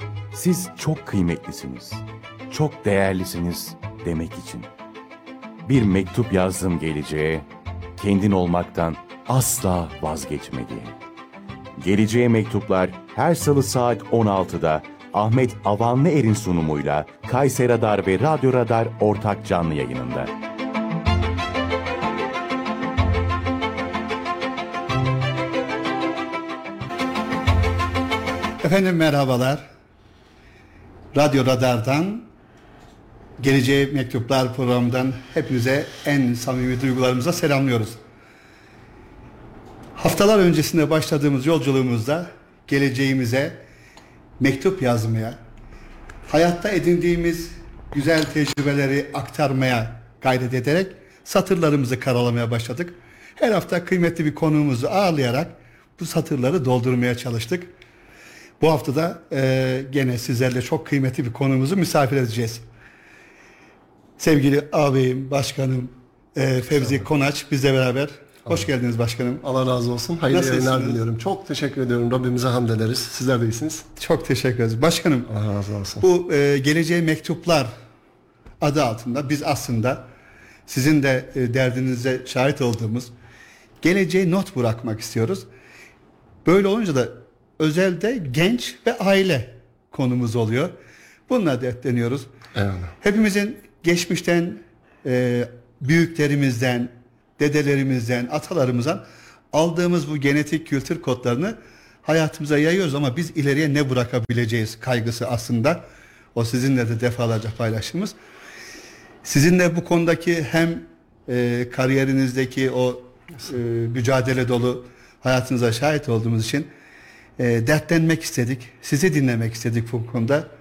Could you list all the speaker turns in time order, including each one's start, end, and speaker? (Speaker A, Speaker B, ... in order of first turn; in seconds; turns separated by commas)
Speaker A: 0.3-4.7, Speaker A: 5.7-7.5, Speaker A: 8.0-10.9, Speaker A: 11.8-20.3, Speaker B: 28.6-29.7, Speaker B: 31.1-32.3, Speaker B: 33.4-38.0, Speaker B: 40.0-43.6, Speaker B: 44.4-45.4, Speaker B: 46.3-57.7, Speaker B: 58.6-62.6, Speaker B: 64.2-69.4, Speaker C: 69.4-73.9, Speaker B: 70.3-71.0, Speaker B: 74.0-75.3, Speaker C: 75.3-76.0, Speaker B: 76.0-77.7, Speaker B: 78.6-80.0, Speaker B: 80.7-83.1, Speaker B: 83.8-85.5, Speaker B: 86.5-90.7, Speaker B: 91.3-92.3, Speaker C: 92.5-92.9, Speaker B: 93.0-105.8, Speaker B: 106.3-108.2, Speaker B: 109.2-116.7, Speaker B: 117.4-120.5